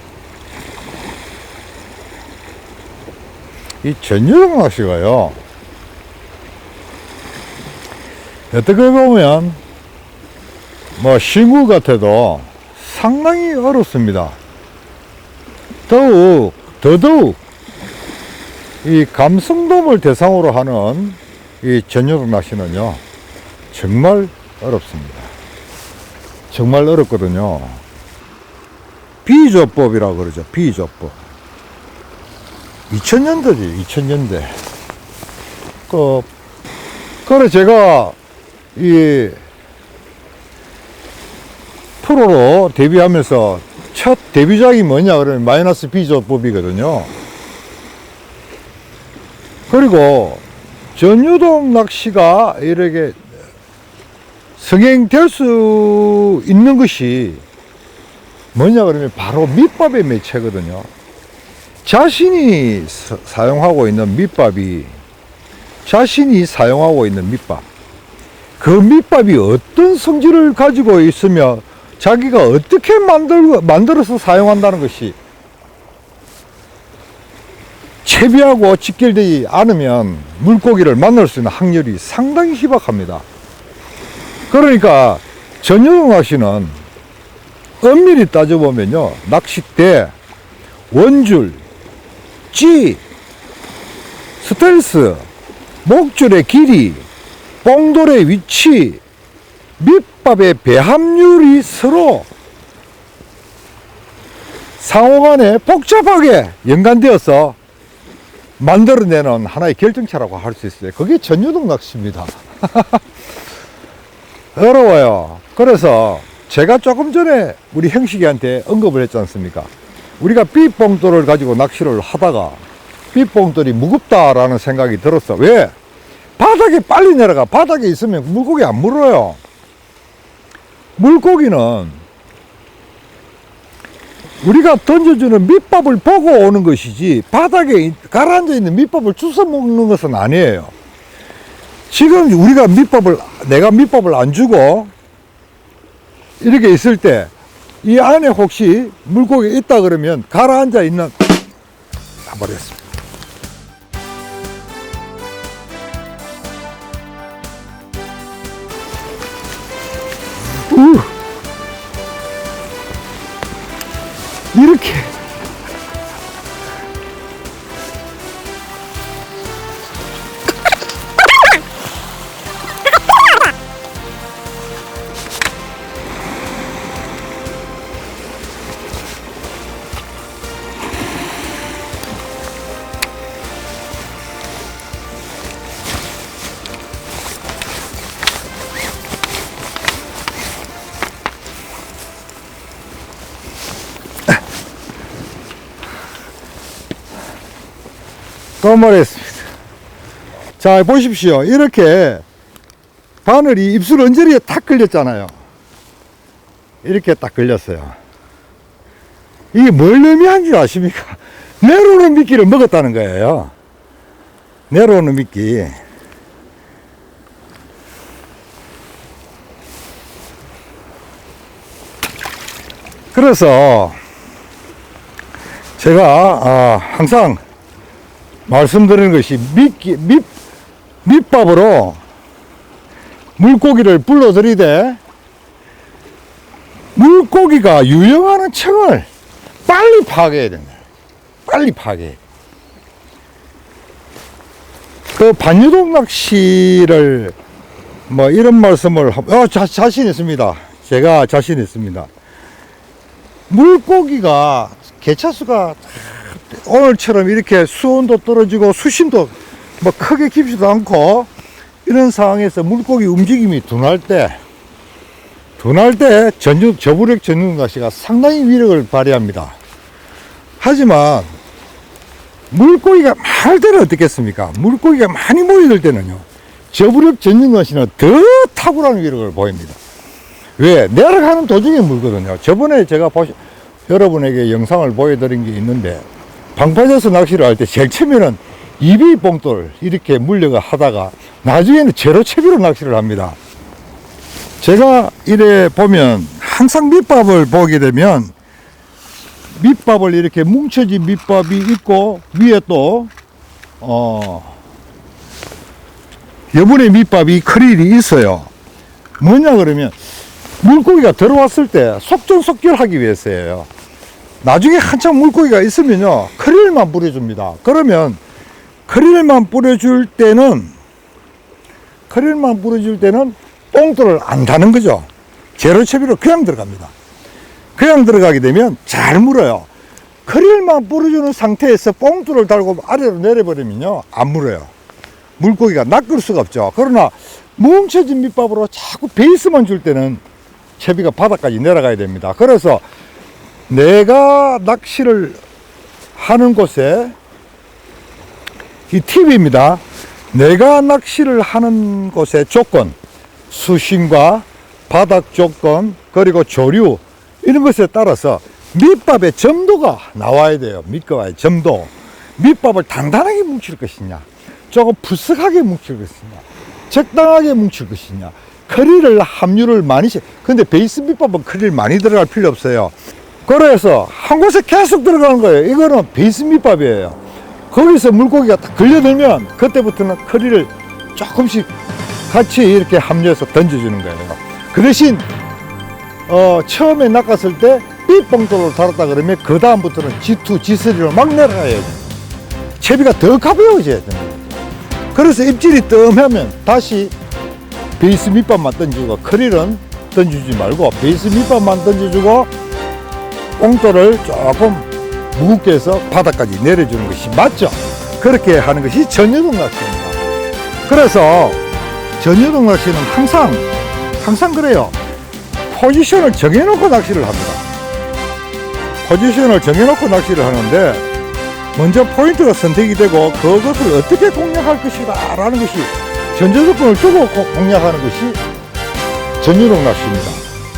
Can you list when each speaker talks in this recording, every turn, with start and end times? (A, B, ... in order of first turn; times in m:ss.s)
0:03.8-0:05.4 A
0:08.5-0:09.6 A
0:11.0-0:14.4 A
0:15.9-0:17.4 A
0:18.8-0:23.0 A
0:23.7-0:25.3 A
0:26.5-0:27.8 A
0:29.2-0:31.2 A
0:32.9-0:34.6 A
0:35.9-0:36.3 A
0:37.2-0:38.2 A
0:38.8-0:39.4 A
0:42.0-0:47.1 A
0:49.7-0:50.4 A
0:51.0-0:53.2 A
0:54.6-0:57.4 A
0:58.5-1:00.9 A
1:01.8-1:05.0 A
1:05.8-1:07.7 A
1:08.6-1:15.2 A
1:18.0-1:23.2 A
1:24.5-1:26.8 A
1:27.8-1:30.1 A
1:30.9-1:31.6 A
1:32.5-1:33.0 A
1:34.4-1:35.3 A
1:35.8-1:37.1 A
1:37.6-1:39.0 A
1:39.8-1:42.3 A
1:44.8-1:47.6 A
1:48.6-1:53.0 A
1:54.6-2:02.6 A
2:03.1-2:05.7 A
2:06.4-2:09.4 A
2:11.0-2:12.0 A
2:14.4-2:20.7 A
2:21.9-2:24.9 A
2:26.4-2:27.3 A
2:27.8-2:31.2 A
2:32.3-2:32.8 A
2:40.7-2:41.1 A
2:44.5-2:45.1 A
3:18.6-3:19.5 A
3:20.6-3:22.2 A
3:23.2-3:25.3 A
3:26.8-3:28.0 A
3:29.5-3:33.5 A
3:34.7-3:35.8 A
3:43.1-3:44.0 A
3:45.8-3:47.4 A
3:48.5-3:50.3 A
3:51.0-3:52.0 A
3:53.4-3:55.0 A
3:57.0-3:59.1 A
3:59.7-4:00.8 A
4:01.5-4:02.2 A
4:05.1-4:07.4 A
4:08.1-4:12.1 A
4:13.5-4:21.3 A
4:21.8-4:24.4 A
4:25.6-4:29.6 A
4:30.6-4:31.3 A
4:32.5-4:39.8 A
4:40.6-4:53.4 A
4:54.6-4:58.3 A
4:59.6-5:03.1 A
5:03.8-5:04.6 A
5:06.5-5:08.5 A
5:09.2-5:10.0 A
5:10.6-5:13.7 A
5:14.4-5:18.2 A
5:18.9-5:20.7 A
5:22.1-5:26.9 A
5:27.8-5:29.7 A
5:30.2-5:34.7 A
5:35.4-5:40.2 A
5:40.8-5:42.8 A
5:43.7-5:45.4 A
5:46.2-5:47.2 A
5:48.9-5:53.0 A
5:53.5-6:12.9 A
6:13.5-6:17.2 A
6:17.7-6:21.7 A
6:22.3-6:25.3 A
6:26.3-6:32.1 A
6:32.8-6:34.6 A
6:35.1-6:37.1 A
6:38.0-6:42.5 A
6:43.6-6:50.2 A
6:50.9-6:51.6 A
6:52.2-6:53.7 A
6:54.2-6:55.0 A
6:55.7-6:57.6 A
6:59.0-7:01.1 A
7:01.7-7:08.4 A
7:09.4-7:10.4 A